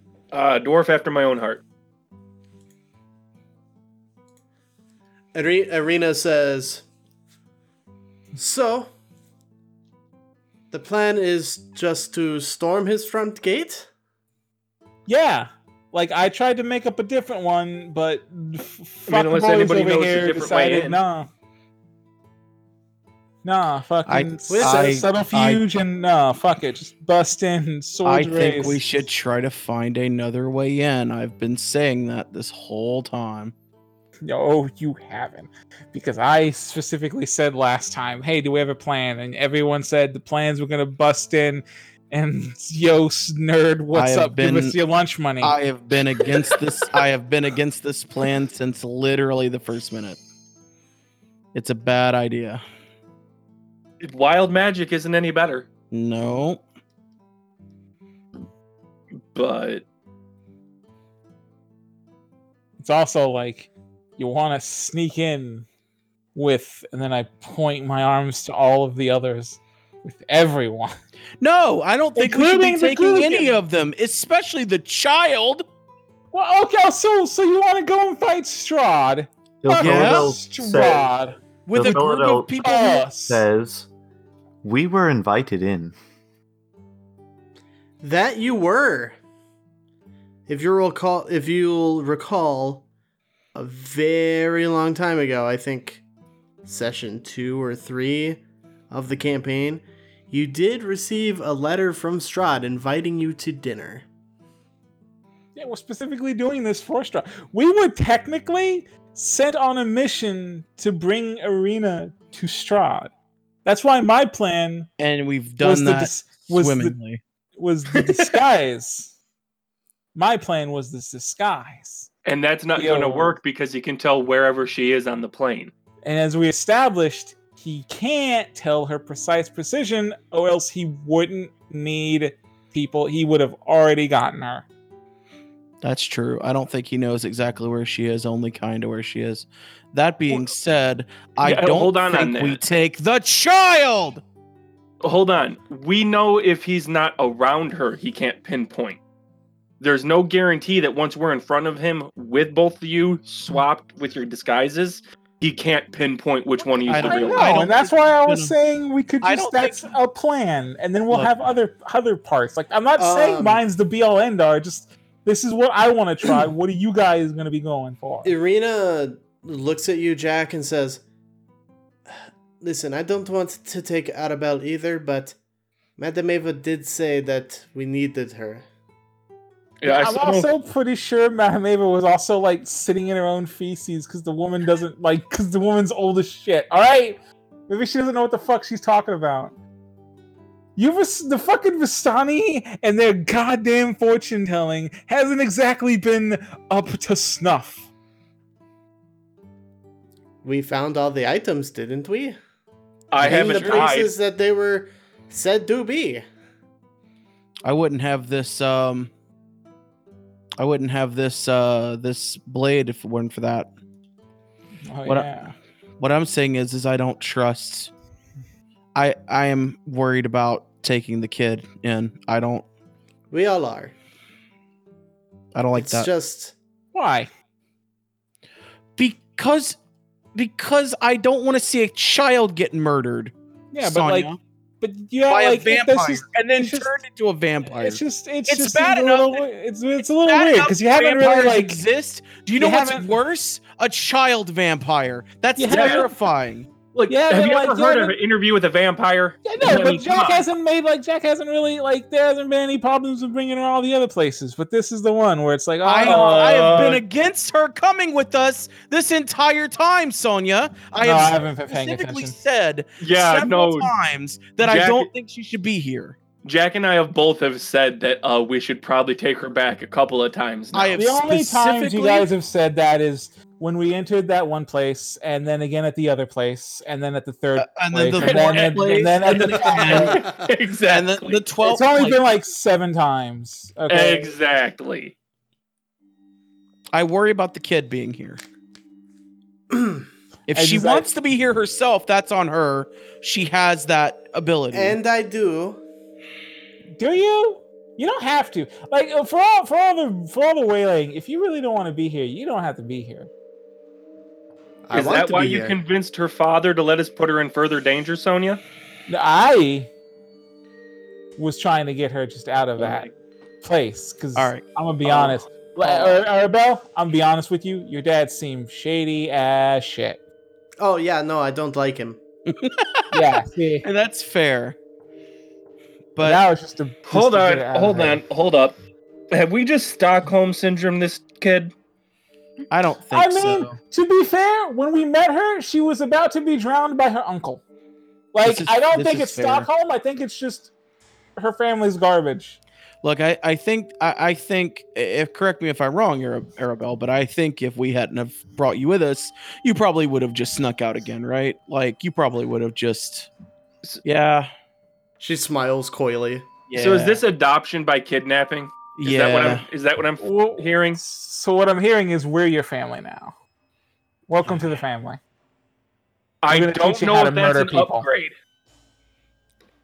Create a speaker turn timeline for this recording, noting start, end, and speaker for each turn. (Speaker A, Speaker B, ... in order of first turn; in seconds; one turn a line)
Speaker A: 0.3-1.6
Speaker B: 5.3-6.8
Speaker B: 8.4-8.9
Speaker B: 10.7-13.9
Speaker C: 15.1-21.3
Speaker A: 19.1-21.0
Speaker C: 23.4-28.9
Speaker D: 24.1-25.6
Speaker B: 24.5-24.9
Speaker D: 28.0-33.5
Speaker C: 34.2-45.6
Speaker D: 43.9-44.8
Speaker D: 45.4-50.2
Speaker D: 51.5-52.6
Speaker A: 54.0-55.7
Speaker D: 55.9-56.6
Speaker A: 59.3-59.9
Speaker C: 62.8-65.7
Speaker C: 66.3-70.9
Speaker D: 71.4-75.7
Speaker C: 72.2-73.6
Speaker C: 76.3-82.0
Speaker E: 79.6-81.1
Speaker D: 79.8-80.4
Speaker D: 81.7-83.1
Speaker E: 81.7-82.6
Speaker C: 82.6-83.5
Speaker E: 83.3-83.9
Speaker E: 84.6-86.0
Speaker B: 88.0-89.2
Speaker B: 90.5-92.9
Speaker B: 93.5-96.0
Speaker B: 96.7-104.0
Speaker C: 105.6-113.1
Speaker C: 113.7-114.9
Speaker D: 115.0-117.2
Speaker C: 115.6-117.0
Speaker C: 117.6-119.2
Speaker C: 120.2-122.1
Speaker A: 122.2-125.7
Speaker C: 122.8-123.4
Speaker C: 126.0-134.7
Speaker D: 135.8-144.2
Speaker A: 141.4-142.6
Speaker A: 145.0-149.0
Speaker A: 149.8-157.7
Speaker D: 156.9-158.6
Speaker C: 156.9-168.3
Speaker D: 159.2-159.9
Speaker B: 163.0-163.6
Speaker B: 168.2-171.0
Speaker B: 172.6-175.4
Speaker B: 176.0-178.7
Speaker A: 179.8-180.5
Speaker C: 179.8-189.5
Speaker C: 190.8-197.9
Speaker B: 200.4-202.4
Speaker A: 203.1-204.1
Speaker B: 203.2-206.2
Speaker D: 203.2-203.9
Speaker D: 207.7-209.1
Speaker D: 210.6-213.7
Speaker C: 214.9-215.5
Speaker D: 216.0-217.9
Speaker D: 218.9-222.7
Speaker B: 223.3-223.9
Speaker D: 225.5-226.1
Speaker B: 225.8-226.5
Speaker C: 226.9-227.3
Speaker D: 229.0-229.8
Speaker D: 230.3-234.4
Speaker C: 233.7-237.0
Speaker D: 235.3-239.4
Speaker C: 237.7-241.8
Speaker D: 240.2-246.7
Speaker C: 242.6-243.1
Speaker C: 245.6-246.1
Speaker A: 245.7-246.1
Speaker A: 246.9-250.5
Speaker C: 247.1-248.2
Speaker C: 249.4-256.9
Speaker D: 255.8-266.2
Speaker A: 256.0-257.0
Speaker C: 261.0-262.4
Speaker A: 263.0-263.9
Speaker A: 264.6-265.1
Speaker A: 266.4-271.0
Speaker D: 270.7-272.3
Speaker C: 271.0-280.2
Speaker D: 277.6-280.2
Speaker A: 278.2-281.4
Speaker B: 279.9-280.3
Speaker D: 280.9-282.2
Speaker C: 281.6-284.3
Speaker A: 283.9-285.1
Speaker D: 286.9-288.4
Speaker B: 289.7-290.1
Speaker D: 290.5-295.0
Speaker C: 290.5-291.1
Speaker B: 294.7-295.8
Speaker C: 297.0-303.3
Speaker B: 304.9-305.8
Speaker A: 304.9-308.6
Speaker C: 309.1-309.9
Speaker C: 311.4-313.1
Speaker C: 313.6-320.2
Speaker D: 314.4-315.4
Speaker D: 315.9-316.1
Speaker B: 320.8-322.2
Speaker D: 322.5-323.2
Speaker C: 323.1-323.9
Speaker D: 323.8-324.8
Speaker D: 326.2-326.4
Speaker C: 326.2-328.2
Speaker A: 327.1-328.8
Speaker A: 329.3-331.7
Speaker D: 332.7-333.8
Speaker C: 333.1-337.6
Speaker C: 338.3-340.7
Speaker D: 338.4-339.7
Speaker C: 341.4-342.6
Speaker D: 343.0-353.3
Speaker D: 354.0-354.5
Speaker B: 355.2-356.5
Speaker D: 356.7-357.2
Speaker A: 356.8-361.0
Speaker D: 359.0-359.6
Speaker C: 360.2-363.4
Speaker C: 364.3-365.2
Speaker A: 366.4-368.3
Speaker C: 366.5-368.1